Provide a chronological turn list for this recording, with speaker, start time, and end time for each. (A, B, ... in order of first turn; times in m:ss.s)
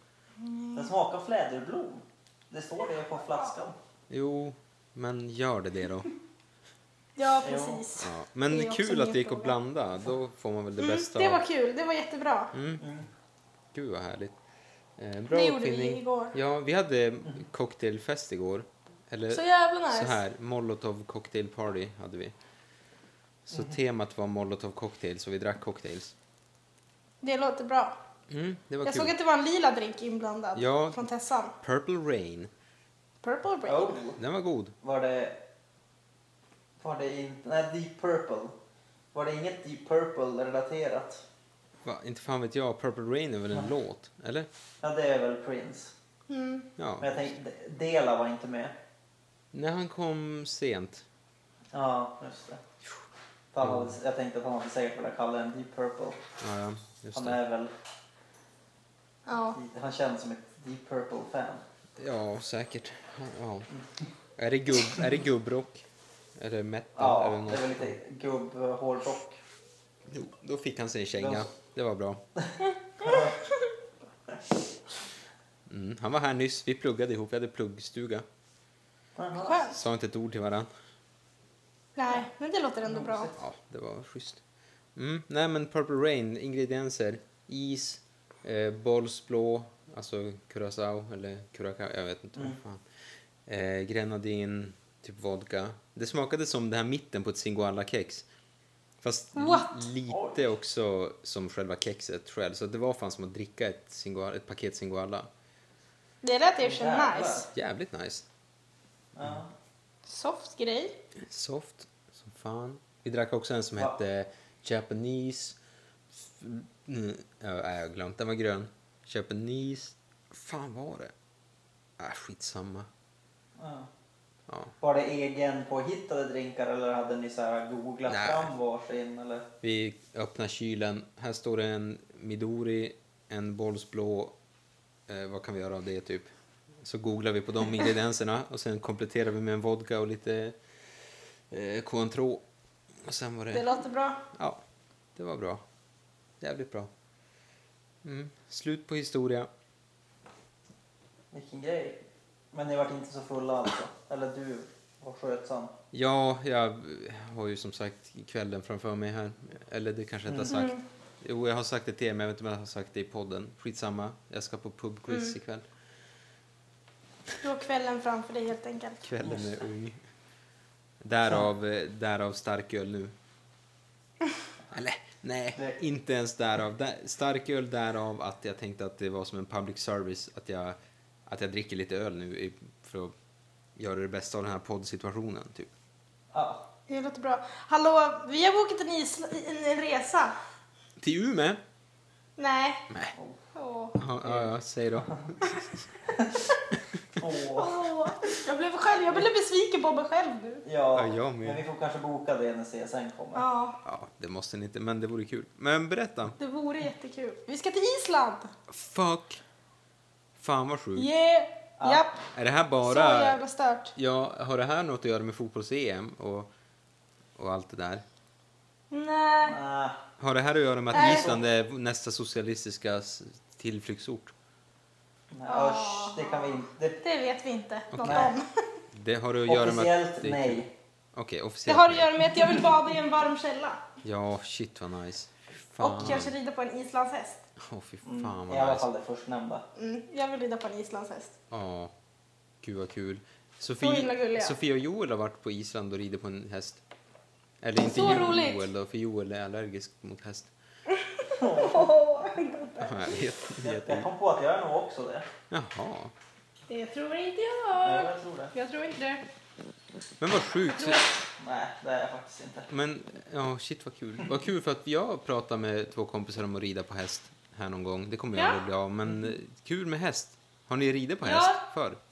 0:00.4-0:00.9 A
0:00.7-0:03.8 B
0:04.1-0:06.1 C
0:07.2-0:09.5 A
0:07.4-0:07.8 B
0:08.0-0:11.4 C
0:10.8-0:12.5 A
0:12.5-0:12.8 C
0:12.8-0:13.1 B
0:13.7-0:14.4 C
0:15.0-0:22.3 C
0:15.3-0:16.3 A
0:19.3-0:20.2 A
0:23.5-0:26.1 C
0:27.2-0:28.0 A
0:28.3-0:29.1 C
0:28.8-0:31.5 A
0:30.5-0:31.0 C
0:31.6-0:32.5 C
0:33.2-0:34.0 A
0:33.6-0:34.2 B
0:34.2-0:34.7 C
0:34.8-0:35.4 B
0:36.8-0:38.5 B
0:39.1-0:41.2 B
0:41.8-0:44.5 C
0:44.8-0:45.9 B
0:46.3-0:46.7 A
0:46.8-0:47.2 C
0:47.0-0:48.7 B
0:49.5-0:51.0 C
0:51.7-0:52.6 B
0:53.5-0:56.2 B
0:53.6-0:54.0 C
0:56.4-0:57.4 C
0:57.1-0:57.7 B
0:59.3-0:59.6 A
0:59.5-1:01.6 B
1:02.0-1:03.7 C
1:04.4-1:05.8 C
1:06.4-1:07.9 C
1:06.9-1:09.4 B
1:10.1-1:12.2 C
1:11.2-1:11.5 B
1:12.4-1:13.4 B
1:13.0-1:13.3 A
1:15.7-1:18.2 C
1:19.2-1:19.6 B
1:19.4-1:19.8 A
1:19.7-1:20.7 C
1:22.0-1:23.3 A
1:22.8-1:23.4 B
1:23.4-1:24.4 C
1:24.9-1:32.8 C
1:33.4-1:38.2 C
1:39.0-1:45.3 C
1:39.4-1:39.8 A
1:40.1-1:40.5 B
1:46.2-1:47.4 A
1:46.6-1:47.5 B
1:47.5-1:48.2 C
1:49.2-1:49.5 B
1:50.0-1:50.9 A
1:51.2-1:55.6 C
1:56.1-2:01.1 C
2:02.0-2:02.9 C
2:03.6-2:03.9 B
2:04.5-2:04.7 C
2:04.8-2:09.4 B
2:08.1-2:08.5 C
2:09.6-2:14.4 C
2:15.1-2:20.6 C
2:21.5-2:22.4 C
2:23.0-2:23.6 C
2:23.5-2:24.2 A
2:24.3-2:24.6 C
2:25.1-2:25.6 C
2:26.4-2:26.9 C
2:28.0-2:29.5 C
2:31.3-2:32.0 B
2:32.5-2:35.7 B
2:35.9-2:45.6 C
2:40.3-2:40.7 B
2:40.5-2:40.8 A
2:45.1-2:45.3 A
2:47.4-2:49.0 A
2:49.0-2:50.0 C
2:49.2-2:49.6 B
2:51.0-2:53.2 C
2:54.7-3:03.1 C
3:03.8-3:05.7 C
3:06.3-3:06.6 B
3:06.9-3:10.4 A
3:11.0-3:11.6 C
3:12.4-3:12.9 A
3:13.5-3:14.0 A
3:14.0-3:15.8 C
3:14.2-3:15.3 B
3:16.0-3:16.4 B
3:17.2-3:17.8 B
3:17.5-3:20.6 A
3:20.6-3:23.4 B
3:20.9-3:21.6 C
3:23.3-3:23.8 A
3:23.8-3:26.4 C
3:26.4-3:28.5 A
3:28.7-3:29.4 C
3:30.4-3:31.1 C
3:31.0-3:32.2 A
3:31.8-3:32.0 B
3:32.3-3:33.4 C
3:32.8-3:33.9 A
3:33.9-3:36.5 C
3:37.4-3:38.0 C
3:38.9-3:39.6 A
3:39.4-3:40.0 B
3:40.2-3:44.3 C
3:40.9-3:41.3 A
3:40.9-3:41.4 B
3:45.3-3:47.0 B
3:45.5-3:48.5 A
3:47.9-3:48.3 C
3:48.0-3:48.3 B
3:48.9-3:50.6 C
3:49.4-3:50.7 B
3:51.1-3:52.3 C
3:51.7-3:53.8 A
3:52.4-3:52.7 B
3:54.0-3:56.3 C
3:55.8-3:57.4 A
3:57.6-3:58.9 C
3:58.0-3:59.6 B
3:59.8-4:01.4 A
4:01.5-4:01.9 C
4:02.6-4:06.8 C
4:03.8-4:04.5 A
4:07.6-4:10.5 C
4:07.8-4:08.6 A
4:10.9-4:13.0 A
4:11.3-4:12.0 B
4:12.8-4:14.1 C
4:13.6-4:15.3 B
4:15.5-4:16.1 C
4:16.7-4:19.2 A
4:17.8-4:18.5 B
4:20.2-4:21.0 C
4:20.7-4:21.0 A
4:21.4-4:22.7 B
4:22.7-4:32.0 C
4:28.3-4:28.6 A
4:31.2-4:31.6 A